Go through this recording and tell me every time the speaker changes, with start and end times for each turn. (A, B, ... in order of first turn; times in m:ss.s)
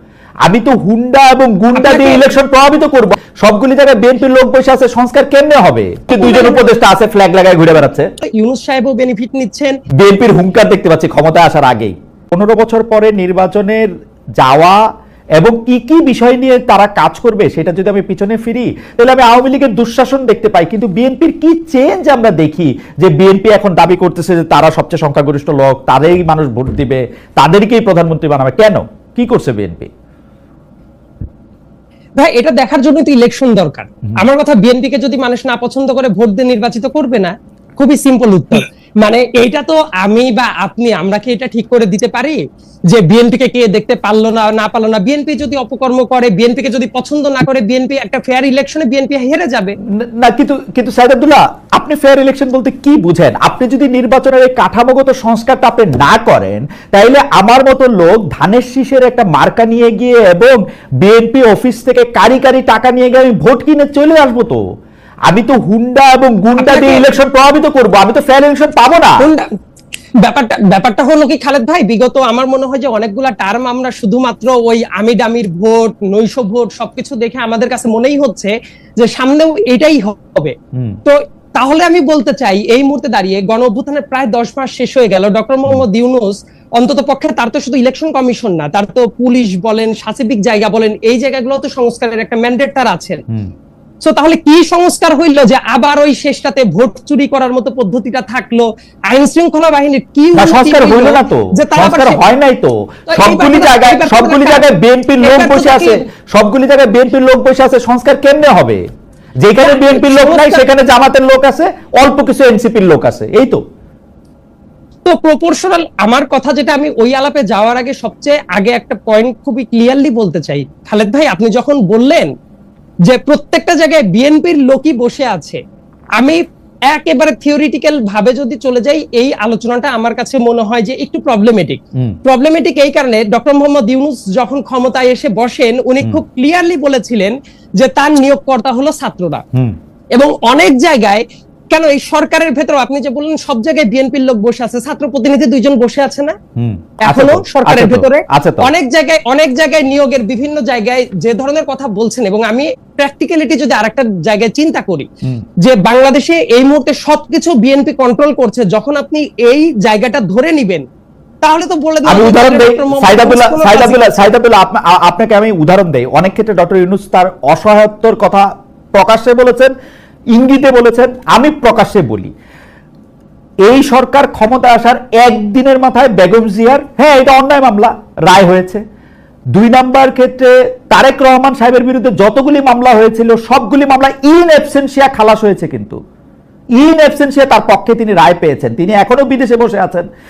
0:00.4-0:08.1 A
0:01.7-0:02.3 B
0:06.2-0:06.6 B
0:08.2-0:09.8 B
0:10.0-0:14.8 A
0:15.4-0:29.9 A
0:32.2-0:49.8 B
0:50.0-1:04.6 A
1:05.3-1:09.2 A
1:06.6-1:07.1 B
1:09.2-1:09.5 B
1:10.2-1:20.5 B
1:20.7-1:21.0 A
1:21.0-1:33.2 B
1:34.0-1:42.2 B
1:40.3-1:48.8 A
1:43.1-1:44.6 B
1:45.2-1:46.0 B
1:49.4-1:53.6 A
1:49.6-1:50.6 B
1:55.0-2:02.3 B
2:03.0-2:05.6 B
2:06.2-2:19.4 B
2:20.1-2:26.4 B
2:26.6-2:28.7 A
2:27.0-2:35.1 B
2:35.6-2:40.8 B
2:41.4-2:44.3 B
2:42.0-2:49.7 A
2:50.3-2:52.3 A
2:53.6-2:58.8 A
2:59.5-3:06.0 A
3:06.8-3:10.0 A